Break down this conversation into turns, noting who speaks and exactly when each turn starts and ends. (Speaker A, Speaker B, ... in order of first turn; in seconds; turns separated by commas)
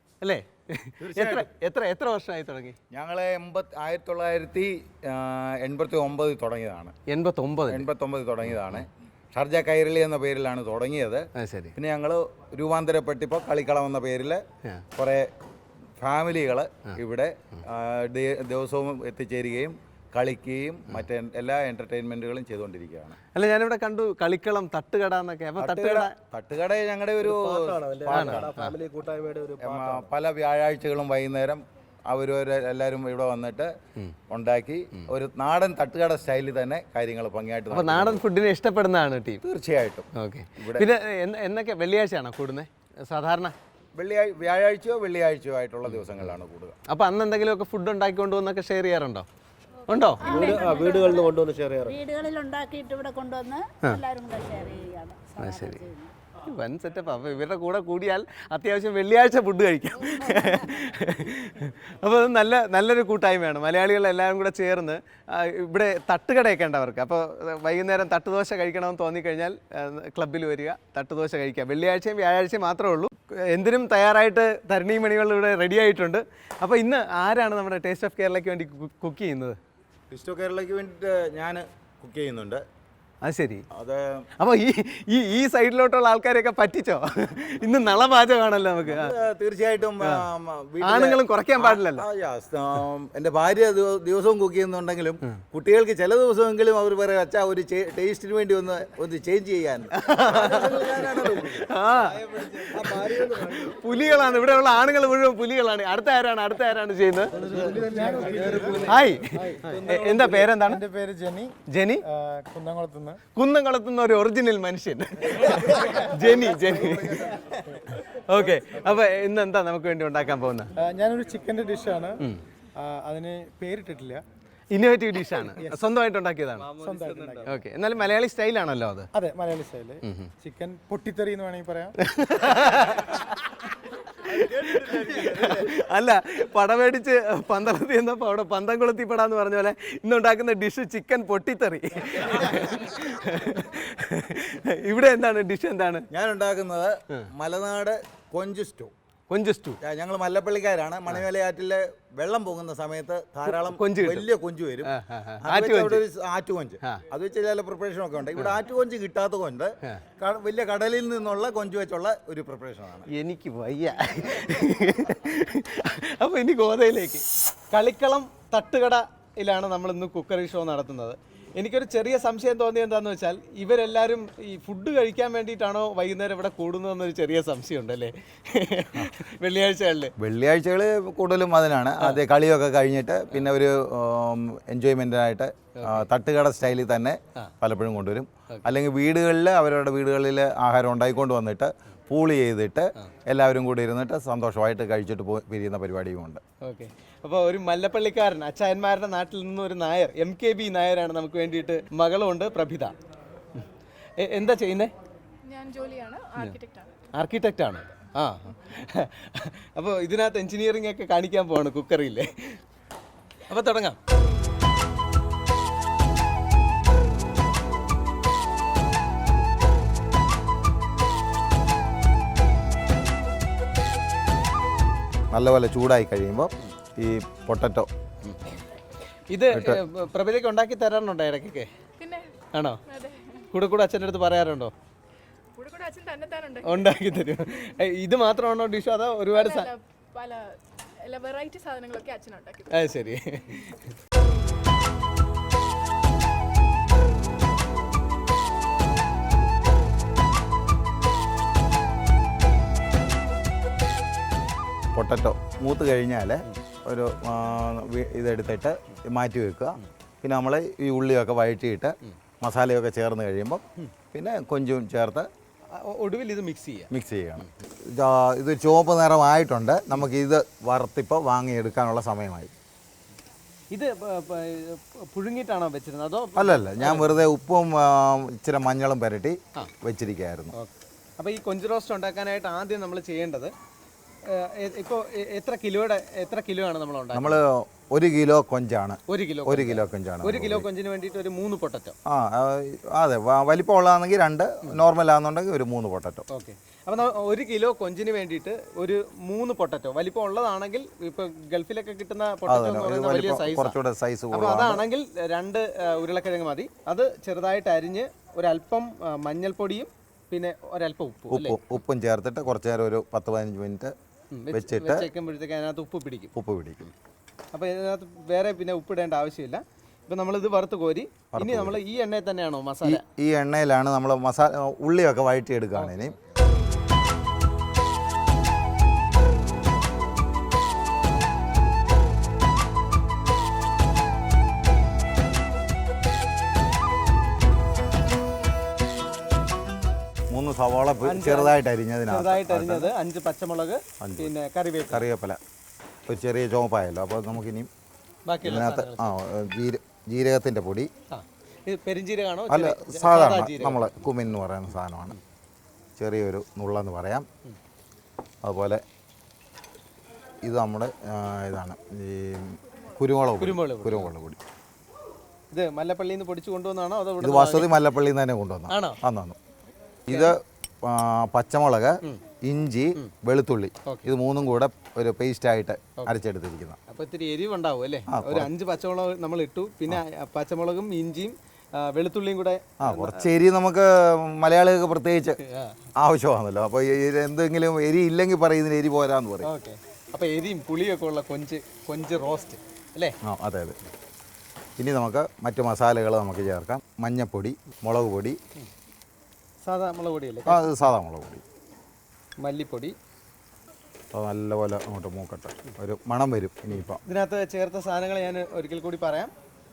Speaker A: 0.2-2.8, Speaker B: 1.0-1.5, Speaker B: 2.9-6.9, Speaker A: 7.1-7.9, Speaker B: 7.7-14.4, Speaker A: 8.5-8.8, Speaker A: 11.4-11.8, Speaker B: 15.0-15.3, Speaker B: 16.0-23.2, Speaker A: 23.3-26.1, Speaker B: 25.6-28.8, Speaker C: 27.2-30.1, Speaker A: 28.1-28.8, Speaker B: 29.6-33.7, Speaker B: 34.3-38.2, Speaker A: 37.7-39.4, Speaker B: 39.4-40.1, Speaker A: 40.1-43.5, Speaker B: 40.6-40.9, Speaker B: 44.0-46.8, Speaker A: 45.9-49.3, Speaker A: 49.9-50.7, Speaker D: 50.2-51.3, Speaker C: 50.2-52.0, Speaker B: 50.5-51.6, Speaker D: 51.9-56.1, Speaker A: 55.4-79.6, Speaker D: 60.3-60.5, Speaker B: 80.1-82.6, Speaker A: 83.2-83.7, Speaker B: 83.7-84.3, Speaker A: 84.4-89.2, Speaker B: 88.9-101.7, Speaker A: 90.0-90.3, Speaker A: 90.8-92.1, Speaker A: 99.9-107.4, Speaker C: 100.4-101.2, Speaker C: 102.0-104.3, Speaker C: 107.3-110.5, Speaker E: 107.5-109.1, Speaker A: 108.8-110.8, Speaker E: 110.5-111.5, Speaker A: 111.7-112.0, Speaker E: 112.1-113.2, Speaker A: 113.3-120.7, Speaker C: 116.5-117.2, Speaker E: 120.8-122.2, Speaker E: 122.8-124.2, Speaker A: 124.7-126.7, Speaker C: 126.7-127.4, Speaker E: 126.8-127.5, Speaker A: 127.4-129.1, Speaker E: 129.1-132.0, Speaker A: 130.0-130.3, Speaker A: 132.0-146.1, Speaker C: 134.6-135.6, Speaker B: 146.1-148.9, Speaker A: 149.3-149.8, Speaker B: 149.8-163.1, Speaker A: 153.5-154.3, Speaker A: 154.8-156.1, Speaker A: 163.1-180.1, Speaker B: 180.2-196.4, Speaker A: 185.8-186.1, Speaker A: 196.6-202.9, Speaker A: 204.2-204.9, Speaker F: 205.5-206.9, Speaker A: 207.1-212.6, Speaker A: 213.5-214.0, Speaker B: 225.3-227.9, Speaker A: 228.2-228.6, Speaker A: 229.3-231.7, Speaker B: 229.5-229.8, Speaker F: 232.0-232.3, Speaker A: 232.5-232.8, Speaker F: 232.9-233.4, Speaker A: 233.5-234.7, Speaker F: 235.6-236.9, Speaker A: 236.6-239.7, Speaker F: 239.3-242.8, Speaker A: 242.7-243.9, Speaker B: 254.9-263.6, Speaker B: 264.1-265.3, Speaker A: 265.7-267.5, Speaker B: 266.9-272.5, Speaker A: 273.7-277.2, Speaker B: 276.4-280.5, Speaker A: 280.5-283.5, Speaker A: 284.3-287.4, Speaker B: 287.1-290.7, Speaker A: 289.1-292.0, Speaker B: 292.1-296.3, Speaker A: 296.3-303.8, Speaker B: 302.5-304.8, Speaker A: 304.3-311.6, Speaker B: 311.3-313.9, Speaker A: 314.3-316.3, Speaker B: 314.5-315.1, Speaker B: 316.4-316.8, Speaker A: 317.5-323.0, Speaker B: 321.3-321.8, Speaker B: 322.8-326.1, Speaker A: 325.8-326.4, Speaker B: 340.3-342.9, Speaker A: 341.0-341.6, Speaker A: 342.1-345.1, Speaker B: 344.0-344.3, Speaker B: 344.9-345.4, Speaker B: 346.1-347.7, Speaker A: 348.3-349.2, Speaker B: 348.4-350.9, Speaker A: 351.1-354.1, Speaker B: 352.5-355.2, Speaker B: 356.0-357.3, Speaker B: 358.4-358.8, Speaker B: 360.4-364.4, Speaker A: 363.4-364.1, Speaker A: 365.5-367.8, Speaker B: 367.2-369.4, Speaker A: 368.7-369.0, Speaker B: 370.1-376.8, Speaker A: 370.1-370.4, Speaker A: 373.9-374.1, Speaker A: 376.9-383.3, Speaker B: 378.1-378.5, Speaker B: 382.8-385.4, Speaker A: 385.4-385.8, Speaker B: 386.0-389.5, Speaker A: 389.4-393.1, Speaker B: 393.2-393.8, Speaker B: 394.8-398.4, Speaker A: 399.6-400.7, Speaker B: 400.5-401.4, Speaker A: 402.4-402.9, Speaker B: 404.1-407.0, Speaker A: 407.0-409.3